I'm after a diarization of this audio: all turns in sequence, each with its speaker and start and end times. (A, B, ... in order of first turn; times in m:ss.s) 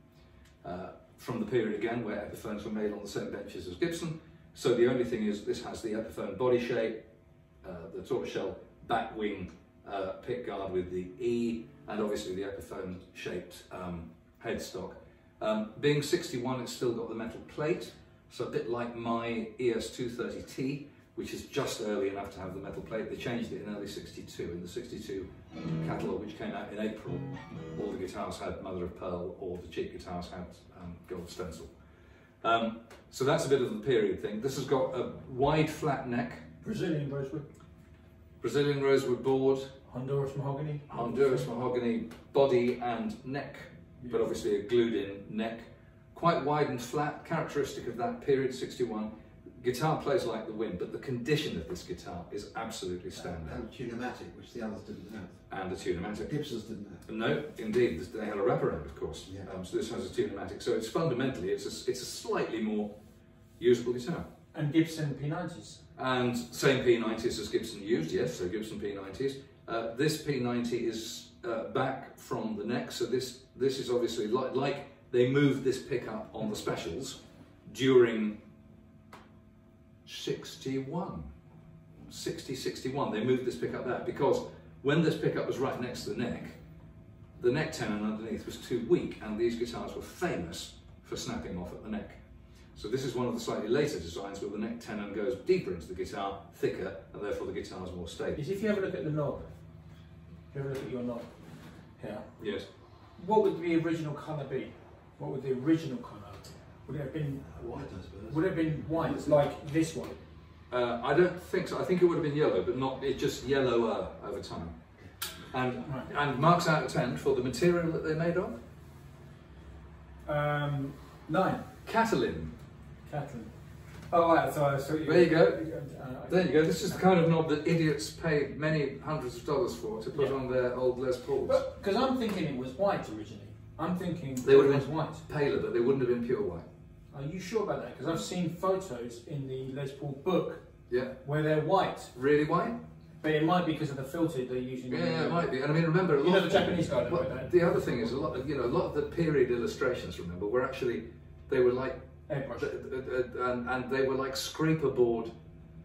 0:00.6-0:07.0 A
0:07.6-0:31.7 A
0:32.4-0:36.4 A
0:36.6-0:37.4 B
0:38.4-0:39.7 A
0:39.9-0:41.4 B
0:40.9-0:53.6 A
0:44.0-0:44.3 B
0:53.2-0:55.4 C
0:55.5-0:56.3 A
0:56.2-0:57.0 C
0:57.0-1:02.9 A
1:03.6-1:04.2 A
1:04.5-1:05.8 B
1:06.0-1:18.4 A
1:20.0-1:21.3 A
1:22.1-1:26.6 A
1:27.4-1:32.2 A
1:32.7-1:38.4 A
1:38.3-1:39.5 B
1:40.5-1:41.3 B
1:42.0-1:42.3 B
1:42.4-1:42.6 A
1:43.2-1:47.4 B
1:47.4-1:49.4 C
1:48.2-1:50.2 B
1:50.7-1:54.7 A
1:55.5-1:58.6 A
1:55.8-1:56.1 B
2:00.2-2:01.6 B
2:01.8-2:02.5 A
2:03.0-2:03.5 B
2:04.1-2:07.0 B
2:05.0-2:05.6 A
2:06.3-2:11.6 A
2:11.4-2:15.2 B
2:14.4-2:16.6 A
2:17.1-2:20.6 B
2:20.9-2:21.1 A
2:21.2-2:22.1 B
2:22.1-2:22.8 A
2:23.2-2:25.5 B
2:24.9-2:32.0 A
2:26.2-2:28.1 B
2:32.3-2:32.7 B
2:32.6-2:35.3 A